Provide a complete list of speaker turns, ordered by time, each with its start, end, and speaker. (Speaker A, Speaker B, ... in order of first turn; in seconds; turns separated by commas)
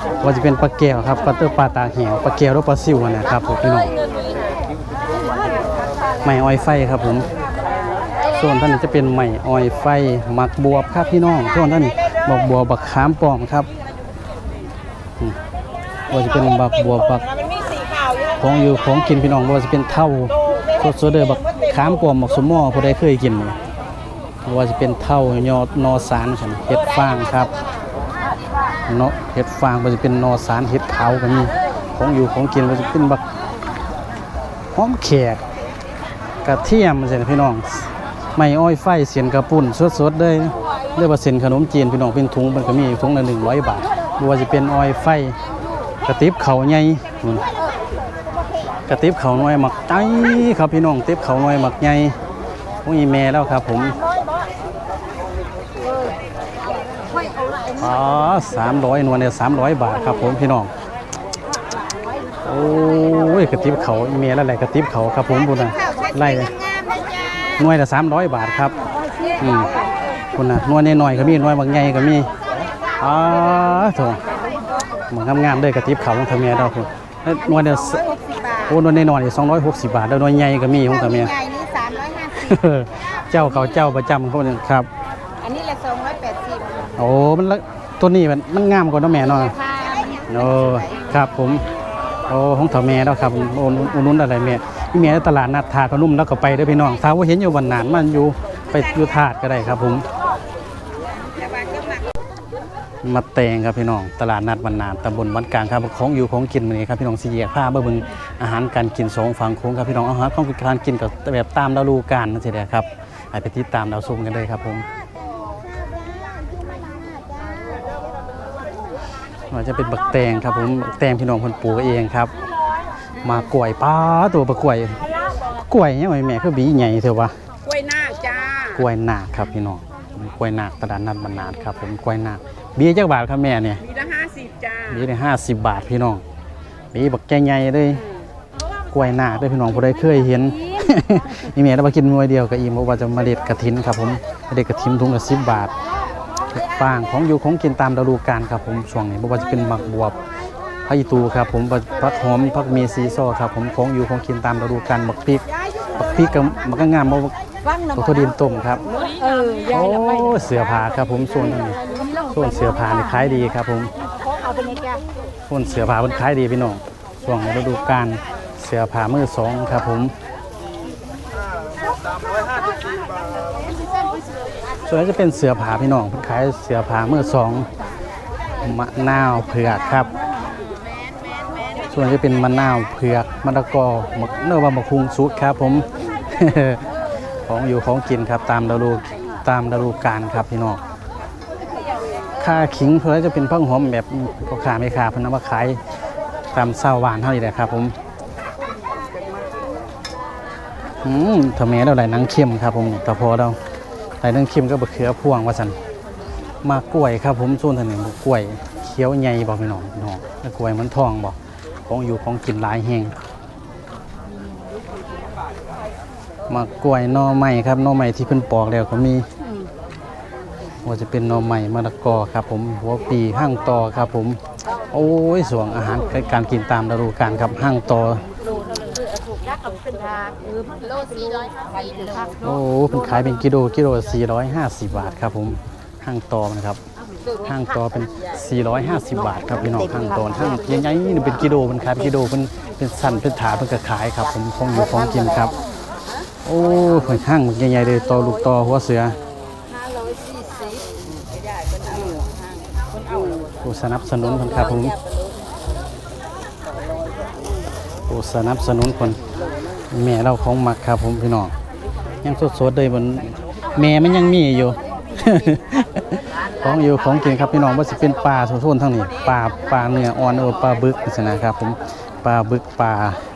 Speaker A: 0.2-3.9, Speaker A: 6.2-7.3, Speaker A: 8.3-13.7, Speaker A: 16.1-17.3, Speaker A: 18.4-23.6, Speaker A: 24.4-27.6, Speaker A: 28.9-33.2, Speaker A: 34.8-35.4, Speaker A: 36.4-45.4, Speaker A: 46.1-47.5, Speaker A: 48.9-52.2, Speaker A: 52.8-54.0, Speaker A: 57.8-60.7, Speaker A: 62.5-66.6, Speaker A: 67.6-68.8, Speaker A: 69.4-69.7, Speaker A: 70.3-72.3, Speaker A: 73.0-74.2, Speaker A: 75.1-78.1, Speaker A: 78.6-81.4, Speaker B: 81.4-82.2, Speaker A: 82.3-84.9, Speaker B: 85.4-86.7, Speaker A: 87.0-91.7, Speaker B: 89.8-90.1, Speaker A: 92.3-100.1, Speaker B: 101.6-101.9, Speaker A: 103.0-114.9, Speaker B: 116.4-117.8, Speaker A: 119.5-122.3, Speaker A: 123.2-127.4, Speaker B: 127.8-128.5, Speaker A: 128.6-133.9, Speaker A: 134.8-136.2, Speaker A: 136.9-138.1, Speaker A: 138.9-145.7, Speaker A: 146.5-150.2, Speaker A: 150.9-157.3, Speaker A: 157.9-158.9, Speaker B: 159.2-159.6, Speaker A: 159.6-163.9, Speaker B: 164.6-165.0, Speaker A: 165.5-170.1, Speaker A: 174.9-177.7, Speaker A: 178.6-180.1, Speaker A: 181.9-190.8, Speaker A: 192.4-195.8, Speaker A: 196.5-198.0, Speaker A: 201.0-203.6, Speaker A: 204.2-205.8, Speaker A: 206.6-213.2, Speaker A: 216.5-219.3, Speaker A: 220.8-224.4, Speaker A: 224.9-228.3, Speaker B: 229.7-232.2, Speaker A: 232.4-236.8, Speaker A: 237.4-245.6, Speaker A: 246.4-249.2, Speaker A: 253.6-254.9, Speaker A: 258.1-259.2, Speaker A: 259.9-261.5, Speaker A: 262.2-273.2